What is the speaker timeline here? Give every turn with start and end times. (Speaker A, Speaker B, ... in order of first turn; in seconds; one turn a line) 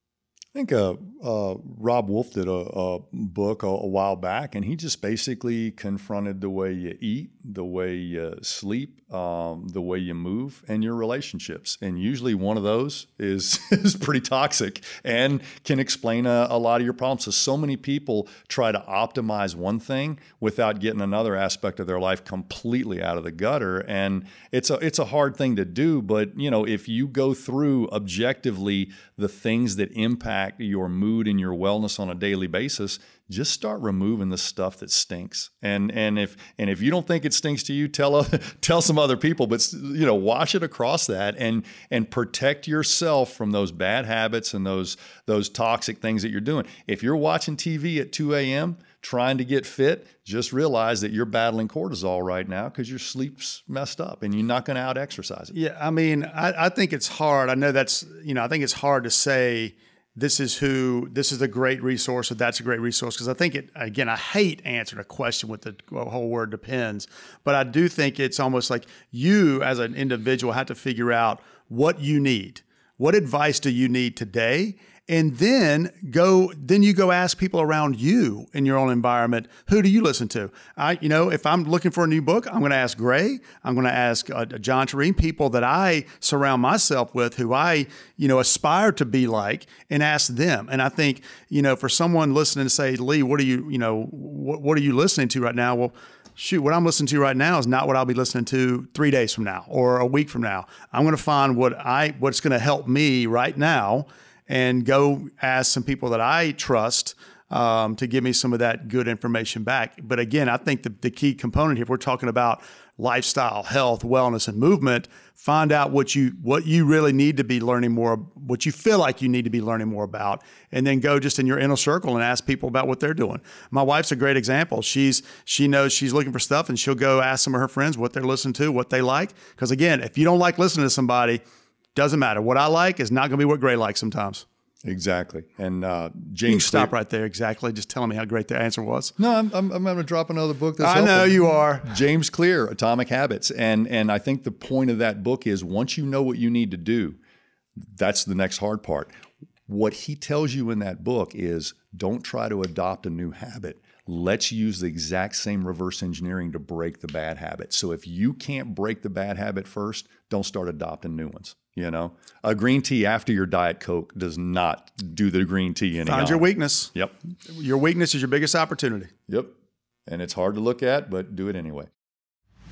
Speaker A: 0.5-55.5
Speaker B: 55.5-131.4
Speaker B: 131.9-134.4
Speaker A: 134.8-136.9
Speaker B: 136.5-139.1
Speaker A: 139.2-147.2
Speaker B: 140.8-141.9
Speaker A: 147.8-149.1
Speaker A: 149.7-167.1
Speaker B: 166.1-166.9
Speaker B: 167.5-169.1
Speaker A: 169.3-169.5
Speaker A: 170.1-171.9